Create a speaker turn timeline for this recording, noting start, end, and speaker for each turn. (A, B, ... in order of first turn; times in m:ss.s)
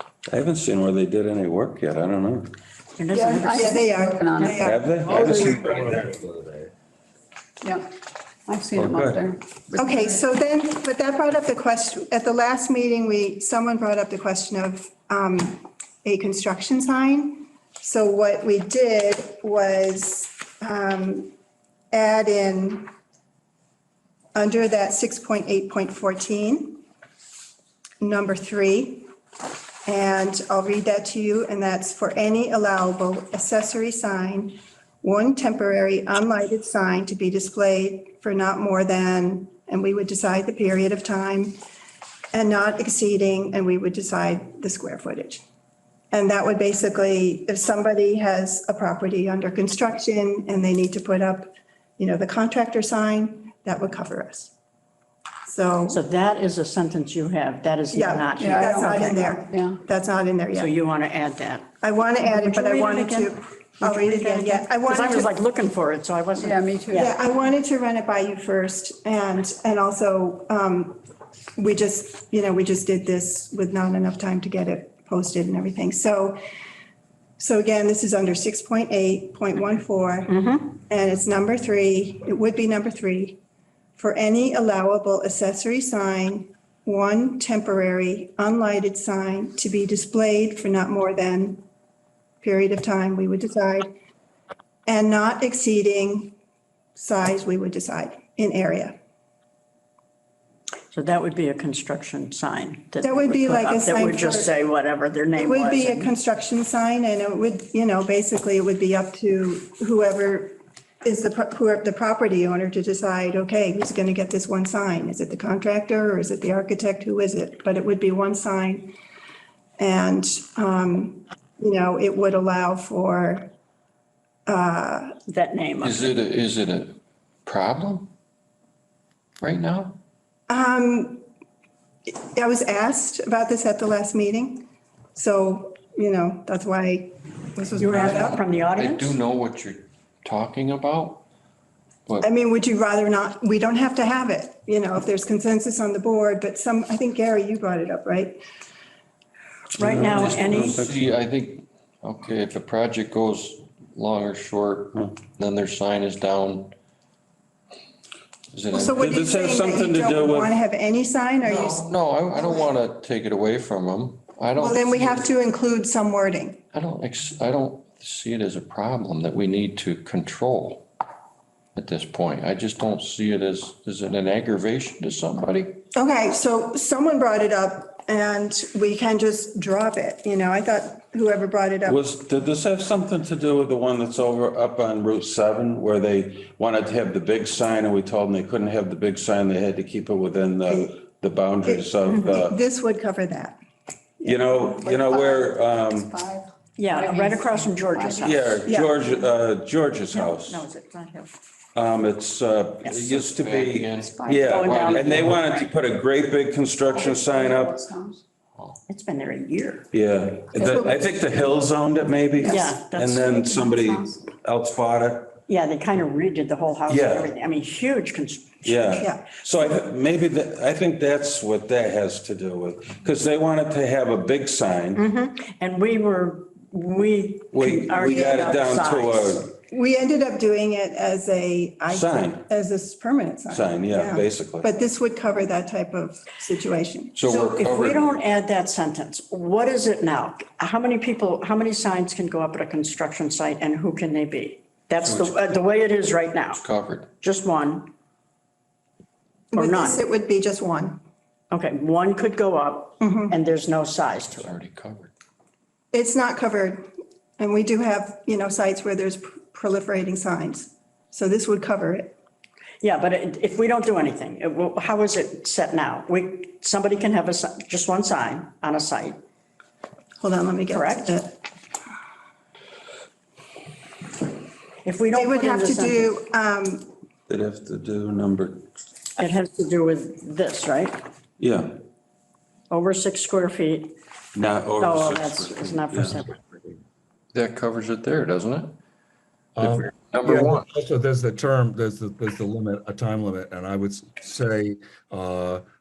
0:00.3-0:02.5 A
0:03.0-0:04.1 B
0:03.1-0:05.7 C
0:03.4-0:05.7 D
0:04.5-0:05.9 A
0:05.1-0:06.7 E
0:08.5-0:10.2 C
0:08.8-0:09.2 A
0:09.8-0:21.3 D
0:21.9-0:22.9 D
0:24.4-0:26.8 D
0:28.0-0:29.1 D
0:29.9-0:41.6 D
0:42.3-0:45.4 D
0:46.1-0:54.5 D
0:55.5-0:56.0 D
0:55.9-0:59.3 B
0:57.9-1:00.7 D
0:58.4-0:59.8 C
1:00.5-1:01.7 B
1:01.8-1:05.3 D
1:02.2-1:07.1 B
1:06.4-1:07.1 C
1:06.9-1:11.0 D
1:11.6-1:16.4 D
1:17.4-1:23.4 D
1:20.3-1:20.7 B
1:24.0-1:31.6 D
1:32.4-1:33.9 D
1:34.9-1:36.4 D
1:37.0-1:39.0 D
1:40.9-1:46.1 B
1:43.0-1:44.5 D
1:45.4-1:58.9 D
1:59.8-2:03.5 D
2:04.5-2:05.2 D
2:05.3-2:06.2 B
2:05.8-2:08.1 F
2:09.4-2:10.0 F
2:10.5-2:11.2 D
2:12.1-2:18.4 D
2:17.8-2:19.2 B
2:17.8-2:21.3 F
2:22.2-2:28.4 D
2:29.8-2:30.8 B
2:29.8-2:31.2 A
2:29.8-2:36.7 F
2:38.5-2:39.0 F
2:38.7-2:42.7 D
2:38.9-2:40.6 A
2:41.4-2:45.3 F
2:44.6-2:46.6 D
2:46.7-2:50.9 F
2:51.8-2:55.8 F
2:55.9-3:02.0 D
3:01.8-3:12.6 A
3:11.6-3:13.6 D
3:14.2-3:14.6 D
3:14.2-3:16.1 A
3:14.6-3:19.3 C
3:16.8-3:18.7 B
3:18.2-3:20.6 A
3:18.7-3:19.0 D
3:20.1-3:21.3 B
3:21.8-3:27.8 A
3:22.9-3:25.5 F
3:24.1-3:24.9 C
3:24.5-3:25.7 B
3:26.9-3:28.2 C
3:28.9-3:29.9 B
3:29.9-3:35.4 A
3:30.6-3:31.1 C
3:32.4-3:34.2 C
3:32.4-3:33.3 B
3:35.5-3:39.1 B
3:36.9-3:37.3 A
3:38.6-3:45.0 A
3:39.0-3:39.3 D
3:45.0-3:49.4 B
3:47.5-3:49.5 A
3:48.0-3:48.5 D
3:49.7-3:57.6 D
3:51.9-3:52.4 A
3:53.5-3:54.7 A
3:57.2-3:58.2 F
3:57.3-4:06.6 B
4:05.0-4:05.6 F
4:06.5-4:07.1 F
4:07.2-4:07.9 B
4:09.5-4:10.0 B
4:09.5-4:11.0 D
4:11.5-4:14.6 B
4:13.0-4:13.4 D
4:14.4-4:15.1 F
4:15.9-4:16.8 D
4:17.4-4:22.2 D
4:22.8-4:29.2 B
4:30.2-4:31.4 D
4:30.7-4:31.2 B
4:34.8-4:36.2 B
4:35.1-4:36.9 D
4:37.3-4:38.6 A
4:39.2-4:41.0 B
4:41.4-4:41.7 A
4:42.7-4:44.0 B
4:44.4-4:46.2 A
4:44.8-4:46.6 B
4:47.3-4:48.8 F
4:49.6-4:55.6 E
4:49.6-4:50.7 F